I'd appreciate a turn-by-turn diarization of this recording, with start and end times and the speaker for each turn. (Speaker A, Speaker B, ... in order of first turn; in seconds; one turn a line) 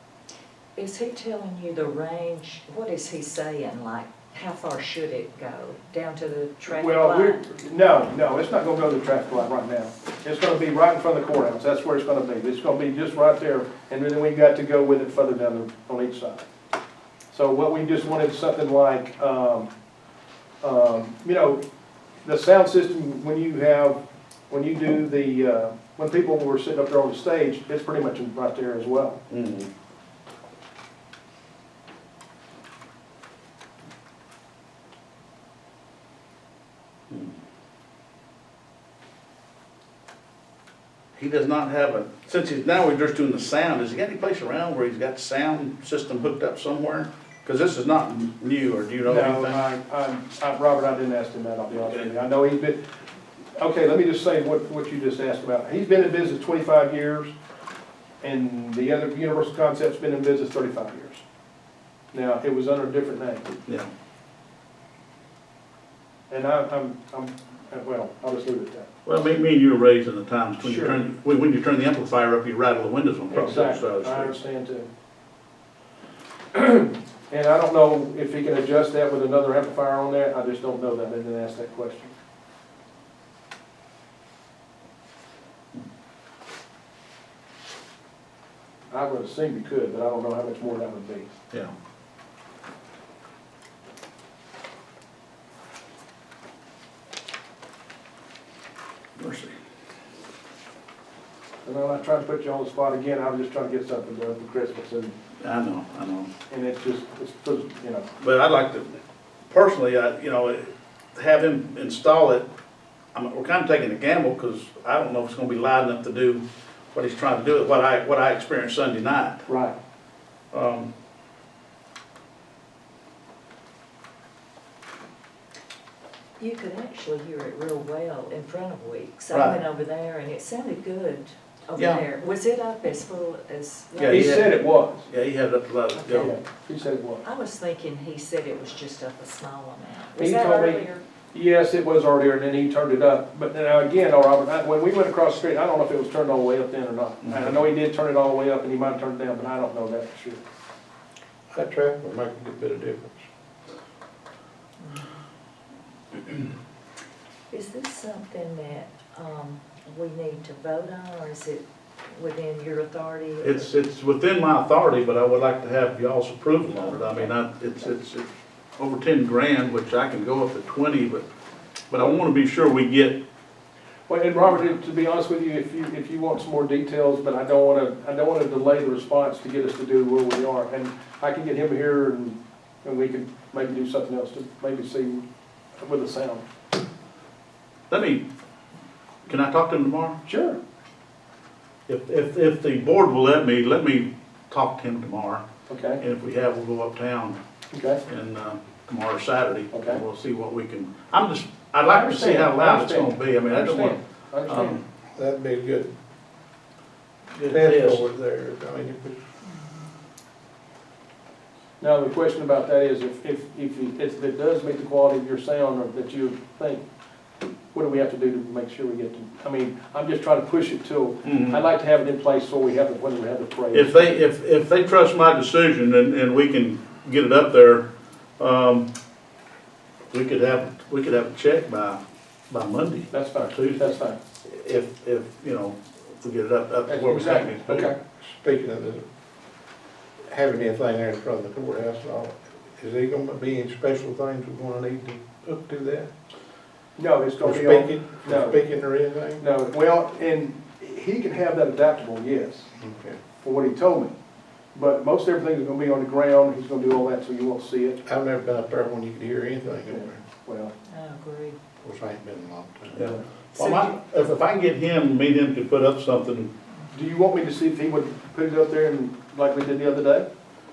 Speaker A: 0.8-7.4
Speaker B: 6.7-16.5
Speaker B: 17.3-19.7
Speaker B: 20.6-21.6
Speaker B: 22.2-29.2
Speaker C: 29.3-29.7
Speaker C: 41.1-49.6
Speaker B: 49.0-52.8
Speaker B: 53.6-57.3
Speaker B: 58.2-61.2
Speaker B: 62.1-63.5
Speaker B: 66.3-68.9
Speaker C: 69.1-74.3
Speaker B: 70.6-71.0
Speaker B: 73.3-74.9
Speaker B: 76.5-82.2
Speaker B: 88.9-91.3
Speaker C: 99.2-99.5
Speaker B: 101.7-105.2
Speaker C: 105.4-106.3
Speaker B: 106.5-108.1
Speaker C: 108.2-112.5
Speaker C: 113.1-119.5
Speaker B: 119.5-119.8
Speaker C: 120.5-120.9
Speaker A: 126.4-134.3
Speaker C: 129.3-129.6
Speaker C: 131.8-132.0
Speaker C: 133.9-134.5
Speaker B: 134.0-135.1
Speaker C: 135.1-136.3
Speaker A: 135.9-136.3
Speaker B: 136.1-137.2
Speaker A: 137.2-141.1
Speaker B: 140.2-150.4
Speaker D: 151.5-153.2
Speaker A: 157.5-163.7
Speaker C: 163.4-171.2
Speaker A: 166.7-167.3
Speaker C: 171.9-173.2
Speaker B: 174.1-185.2
Speaker B: 185.8-186.4
Speaker C: 187.9-188.2
Speaker C: 189.3-190.2
Speaker B: 190.3-190.6
Speaker C: 191.9-195.5
Speaker B: 195.7-196.0
Speaker C: 196.0-197.4
Speaker B: 197.7-198.0
Speaker C: 198.1-204.8
Speaker B: 199.7-200.0
Speaker B: 201.8-204.8
Speaker D: 205.2-205.9
Speaker C: 207.3-208.0
Speaker D: 207.5-209.2
Speaker B: 211.8-216.8
Speaker B: 217.7-224.2
Speaker C: 221.2-221.6
Speaker C: 223.7-227.9
Speaker C: 228.4-228.9
Speaker C: 230.1-233.8
Speaker B: 233.1-234.2
Speaker C: 234.4-237.9
Speaker B: 236.9-238.0
Speaker D: 238.2-239.1
Speaker D: 240.3-246.1
Speaker B: 247.0-248.6
Speaker D: 247.4-249.4
Speaker B: 249.4-252.7
Speaker D: 252.8-253.2
Speaker B: 253.4-254.1
Speaker B: 254.7-258.0
Speaker D: 258.1-260.2
Speaker B: 259.9-260.7
Speaker A: 260.9-261.6
Speaker D: 261.8-263.1
Speaker C: 262.9-266.5
Speaker A: 263.6-263.9
Speaker B: 266.9-270.3